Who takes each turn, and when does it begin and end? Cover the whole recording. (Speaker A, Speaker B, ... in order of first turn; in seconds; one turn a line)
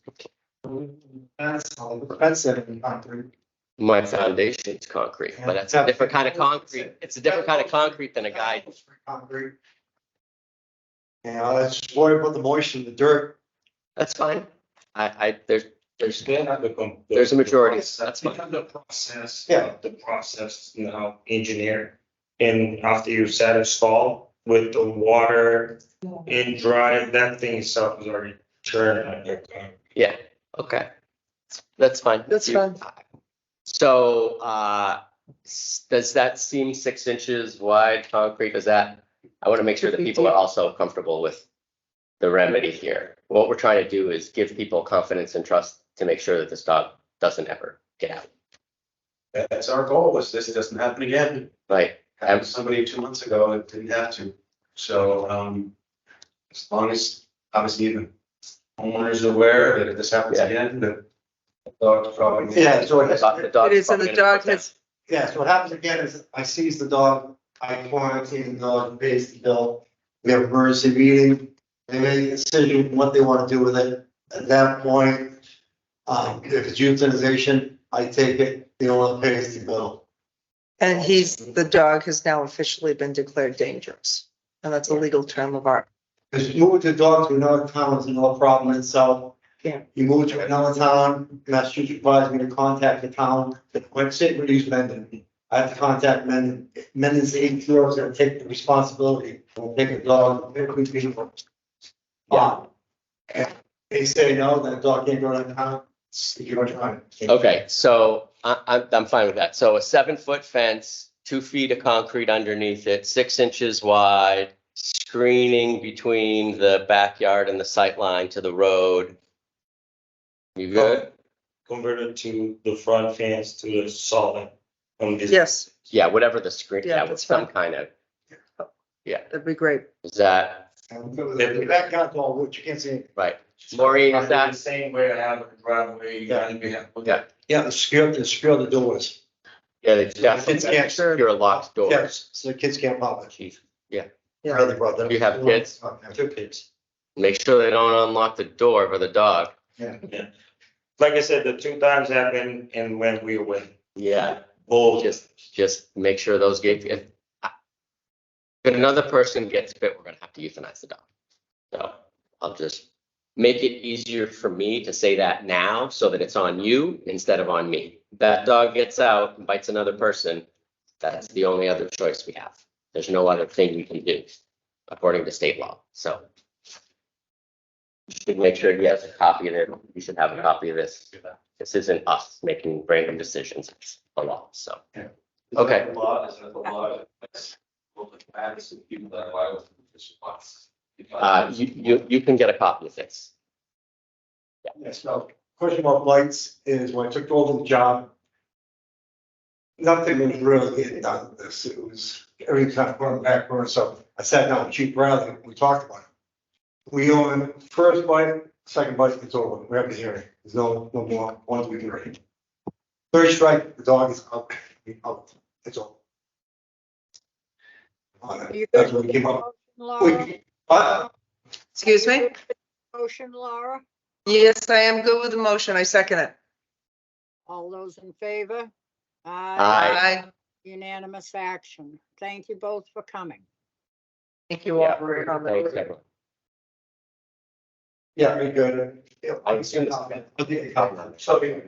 Speaker A: 0.7-3.3
Speaker B: 3.8-8.6
Speaker A: 5.3-9.6
Speaker A: 11.2-13.4
Speaker B: 14.0-16.2
Speaker C: 16.1-29.7
Speaker B: 17.1-18.3
Speaker A: 19.5-19.7
Speaker B: 29.9-30.9
Speaker B: 31.7-33.0
Speaker D: 32.3-32.8
Speaker B: 33.6-41.4
Speaker D: 39.8-40.3
Speaker B: 42.2-48.2
Speaker E: 49.3-51.5
Speaker B: 51.7-52.5
Speaker E: 52.2-55.7
Speaker E: 56.5-58.1
Speaker E: 58.8-61.0
Speaker E: 61.8-62.8
Speaker A: 62.5-63.5
Speaker B: 62.6-64.7
Speaker D: 63.6-64.7
Speaker A: 65.1-75.4
Speaker A: 76.1-80.0
Speaker D: 80.8-85.8
Speaker A: 86.3-89.4
Speaker A: 89.9-101.3
Speaker A: 102.3-102.7
Speaker A: 103.3-107.4
Speaker B: 107.3-119.2
Speaker B: 120.6-121.1
Speaker C: 120.7-121.1
Speaker C: 121.7-125.9
Speaker D: 125.3-125.7
Speaker B: 125.9-127.9
Speaker D: 126.8-127.5
Speaker D: 129.3-129.9
Speaker B: 130.0-130.6
Speaker A: 130.9-133.1
Speaker C: 131.4-131.8
Speaker B: 133.2-134.5
Speaker C: 133.7-137.2
Speaker A: 137.5-139.2
Speaker B: 139.8-142.1
Speaker A: 140.2-143.3
Speaker D: 140.8-141.2
Speaker B: 143.3-144.1
Speaker A: 144.5-146.6
Speaker B: 145.1-145.8
Speaker B: 147.2-149.5
Speaker C: 151.0-153.7
Speaker B: 154.0-154.4
Speaker C: 154.3-155.2
Speaker B: 154.9-157.5
Speaker B: 158.6-161.0
Speaker B: 161.7-162.8
Speaker B: 163.4-170.4
Speaker B: 171.0-174.3
Speaker B: 174.9-176.2
Speaker B: 178.1-184.8
Speaker E: 185.0-191.4
Speaker B: 185.5-185.9
Speaker B: 191.2-193.3
Speaker A: 194.8-198.1
Speaker A: 199.8-206.1
Speaker A: 206.9-212.2
Speaker A: 213.1-216.0
Speaker A: 218.2-219.4
Speaker F: 218.5-220.3
Speaker A: 220.0-221.1
Speaker D: 221.7-222.3
Speaker F: 221.8-223.8
Speaker D: 224.2-226.3
Speaker F: 227.5-228.7
Speaker F: 229.2-233.4
Speaker B: 229.6-230.0
Speaker D: 229.7-230.2
Speaker D: 234.5-235.8
Speaker B: 234.8-236.0
Speaker A: 238.2-241.4
Speaker B: 239.4-240.2
Speaker B: 240.8-241.2